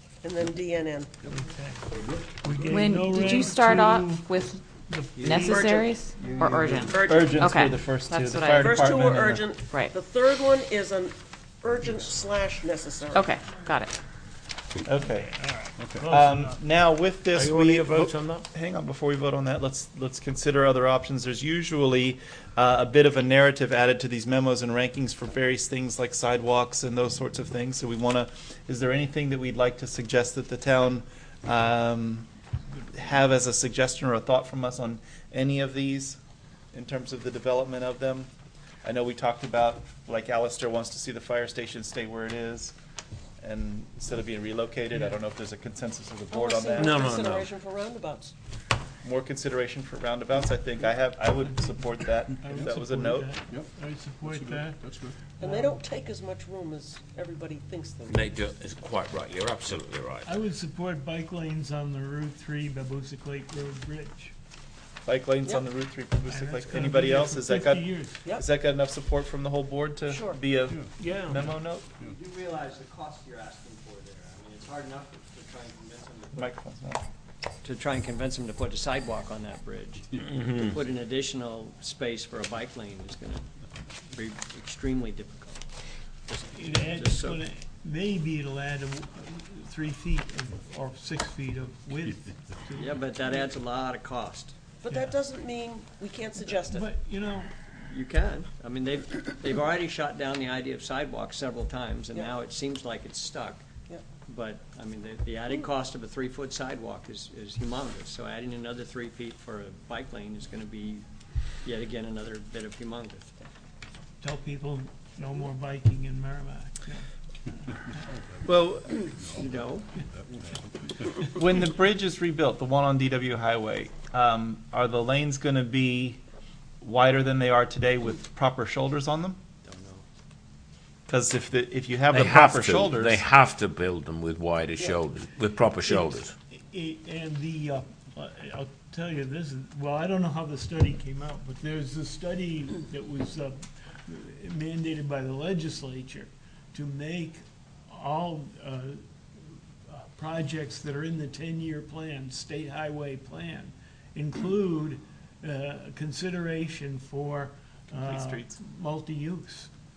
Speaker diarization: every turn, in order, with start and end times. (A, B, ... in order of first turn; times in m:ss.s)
0:00.2-0:01.1 A
0:01.3-0:01.8 B
0:02.0-0:02.8 C
0:02.4-0:05.8 B
0:02.7-0:08.9 D
0:05.2-0:05.4 E
0:06.1-0:06.9 E
0:06.9-0:07.4 A
0:07.0-0:09.5 F
0:08.6-0:13.3 A
0:13.1-0:14.0 D
0:14.8-0:15.3 F
0:14.9-0:16.6 B
0:15.8-0:16.1 C
0:16.0-0:32.3 F
0:17.3-0:18.4 G
0:32.9-0:36.2 F
0:36.7-0:38.3 F
0:38.8-0:42.7 F
0:43.4-0:47.0 F
0:46.3-0:48.3 A
0:46.8-0:47.5 G
0:49.0-0:53.3 F
0:52.4-0:54.8 B
0:53.5-0:55.2 C
0:55.4-0:55.8 B
0:55.4-0:58.3 A
0:58.1-1:00.4 G
1:00.2-1:04.3 B
1:05.0-1:11.9 F
1:06.3-1:08.2 B
1:10.1-1:10.4 A
1:11.0-1:11.5 B
1:12.0-1:16.6 E
1:16.3-1:17.0 F
1:17.6-1:23.4 E
1:20.4-1:20.7 G
1:24.1-1:25.6 E
1:26.3-1:27.4 E
1:26.5-1:33.4 B
1:32.8-1:34.5 E
1:34.8-1:36.9 A
1:34.9-1:35.2 B
1:36.7-1:37.5 B
1:37.9-1:43.6 E
1:44.2-1:51.0 E
1:51.6-1:53.4 E
1:54.2-1:57.0 B
1:58.2-1:58.4 C
1:58.4-1:59.1 F
1:59.2-1:59.6 C
1:59.3-1:59.9 E
2:00.1-2:01.2 C
2:01.3-2:06.2 F
2:06.8-2:09.4 F
2:09.6-2:10.0 E
2:11.1-2:13.2 F
2:12.1-2:16.3 G
2:16.5-2:29.0 B
2:29.5-2:39.7 B
2:37.9-2:38.6 F